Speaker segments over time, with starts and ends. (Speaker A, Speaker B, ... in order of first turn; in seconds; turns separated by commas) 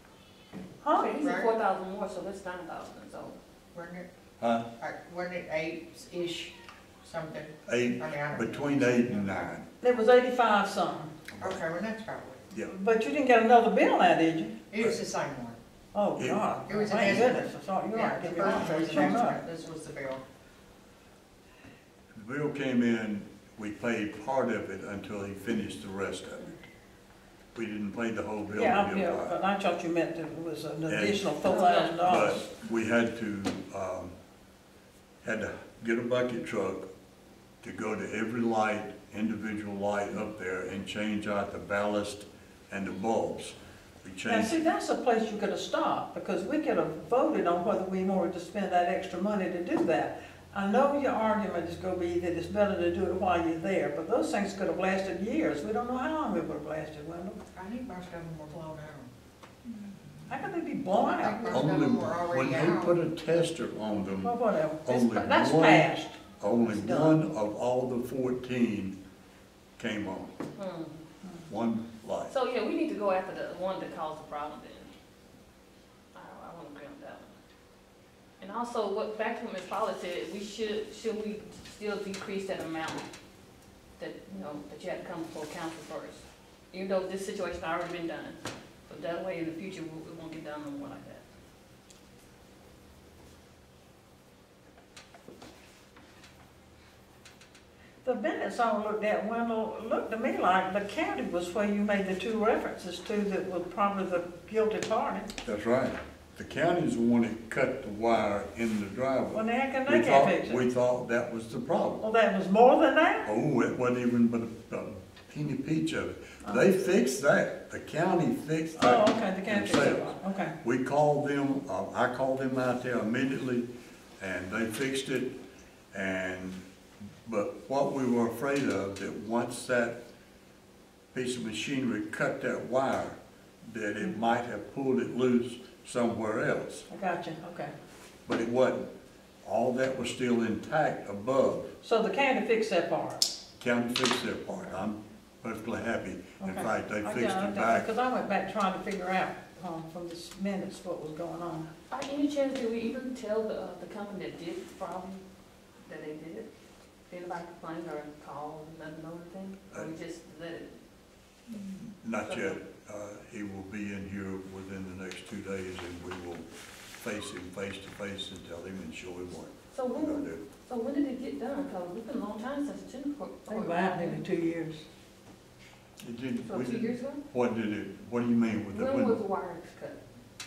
Speaker A: 0.8-1.1, Speaker B: 0.9-3.4, Speaker C: 1.2-1.5, Speaker C: 3.7-4.1, Speaker D: 4.4-4.7, Speaker C: 4.8-9.4, Speaker D: 7.7-9.7, Speaker A: 9.8-11.2, Speaker D: 11.3-11.6, Speaker C: 11.4-12.4, Speaker A: 12.6-14.6, Speaker C: 14.7-15.6, Speaker A: 15.9-19.4, Speaker D: 16.2-17.3, Speaker C: 16.7-20.2, Speaker D: 22.2-26.5, Speaker D: 27.6-29.4, Speaker A: 28.5-32.5, Speaker D: 30.9-31.4, Speaker B: 31.4-32.0, Speaker D: 32.0-34.1, Speaker D: 35.2-36.9, Speaker D: 37.6-44.6, Speaker A: 44.3-57.4, Speaker C: 57.5-59.1, Speaker A: 60.3-61.7, Speaker C: 60.9-63.0, Speaker D: 61.5-69.0, Speaker A: 64.2-67.2, Speaker D: 69.8-70.3, Speaker B: 70.6-71.0, Speaker D: 71.5-72.3, Speaker B: 72.3-74.9, Speaker B: 76.1-77.3, Speaker B: 78.4-83.1, Speaker B: 84.0-91.2, Speaker A: 98.0-105.3, Speaker D: 105.4-112.0, Speaker A: 109.3-110.7, Speaker A: 112.0-113.3, Speaker D: 113.2-123.7, Speaker A: 118.8-120.5, Speaker D: 124.2-125.4, Speaker D: 125.9-126.6, Speaker D: 127.3-130.0, Speaker D: 131.1-136.9, Speaker A: 136.9-137.7, Speaker D: 138.3-138.9, Speaker D: 139.4-141.7, Speaker A: 141.8-143.3, Speaker D: 143.6-147.9, Speaker A: 146.4-151.7, Speaker B: 151.9-155.2, Speaker B: 155.8-156.5, Speaker B: 157.1-160.7, Speaker D: 161.5-166.5, Speaker B: 162.3-162.6, Speaker D: 167.0-170.4, Speaker B: 169.7-174.2, Speaker A: 173.5-174.8, Speaker D: 176.0-179.2, Speaker B: 176.5-177.2, Speaker B: 178.7-180.0